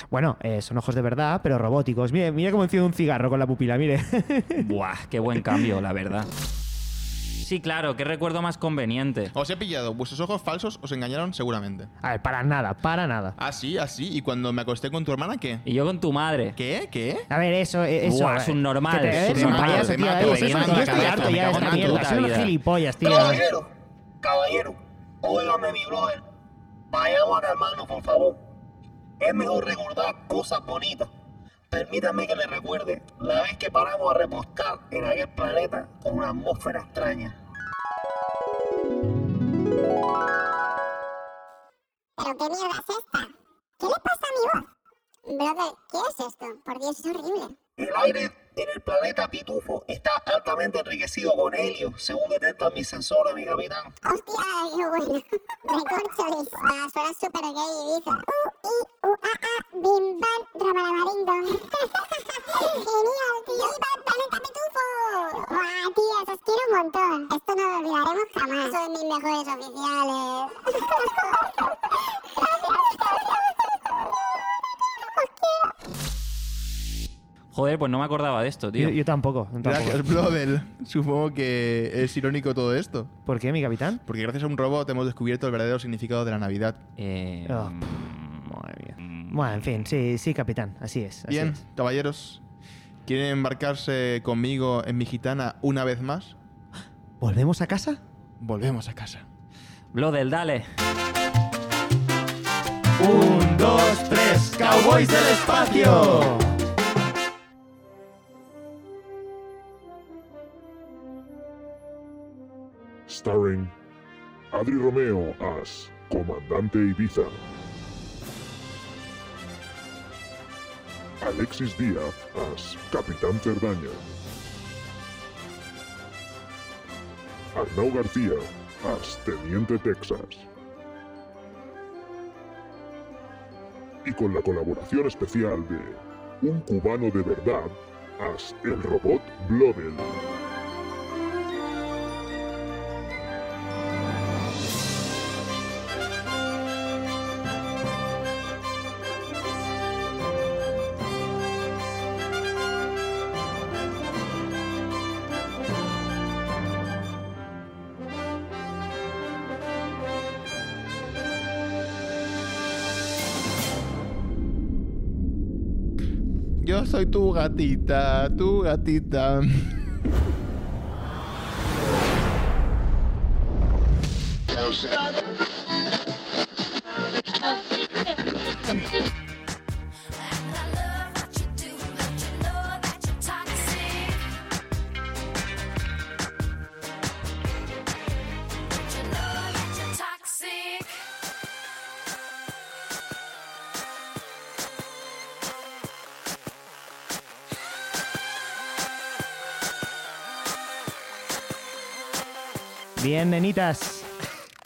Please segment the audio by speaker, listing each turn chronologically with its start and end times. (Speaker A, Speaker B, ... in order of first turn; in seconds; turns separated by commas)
Speaker A: 0.1-4.6, Speaker B: 4.5-6.3, Speaker B: 7.4-9.3, Speaker C: 9.3-11.9, Speaker A: 12.0-13.4, Speaker C: 13.4-15.6, Speaker B: 15.7-16.6, Speaker C: 16.6-17.3, Speaker A: 17.3-23.4, Speaker B: 18.0-22.6, Speaker C: 19.1-22.1, Speaker D: 23.0-23.7, Speaker D: 24.2-26.2, Speaker D: 26.9-28.4, Speaker D: 29.2-31.1, Speaker D: 31.7-37.4, Speaker E: 42.2-44.7, Speaker E: 45.3-47.6, Speaker D: 47.8-53.9, Speaker E: 54.0-71.7, Speaker E: 72.4-73.5, Speaker E: 75.1-75.7, Speaker B: 77.5-79.0, Speaker A: 78.8-80.0, Speaker C: 79.6-83.1, Speaker A: 83.3-84.0, Speaker C: 84.1-86.8, Speaker B: 87.0-89.6, Speaker A: 87.5-87.8, Speaker A: 88.5-91.6, Speaker C: 91.3-92.4, Speaker C: 93.1-96.4, Speaker A: 97.2-98.0, Speaker C: 98.4-99.3, Speaker B: 99.9-100.7, Speaker A: 103.0-106.5, Speaker F: 113.1-113.7, Speaker F: 114.5-117.5, Speaker F: 121.2-124.0, Speaker F: 127.5-130.5, Speaker F: 134.1-140.2, Speaker C: 166.6-169.9, Speaker A: 203.0-204.1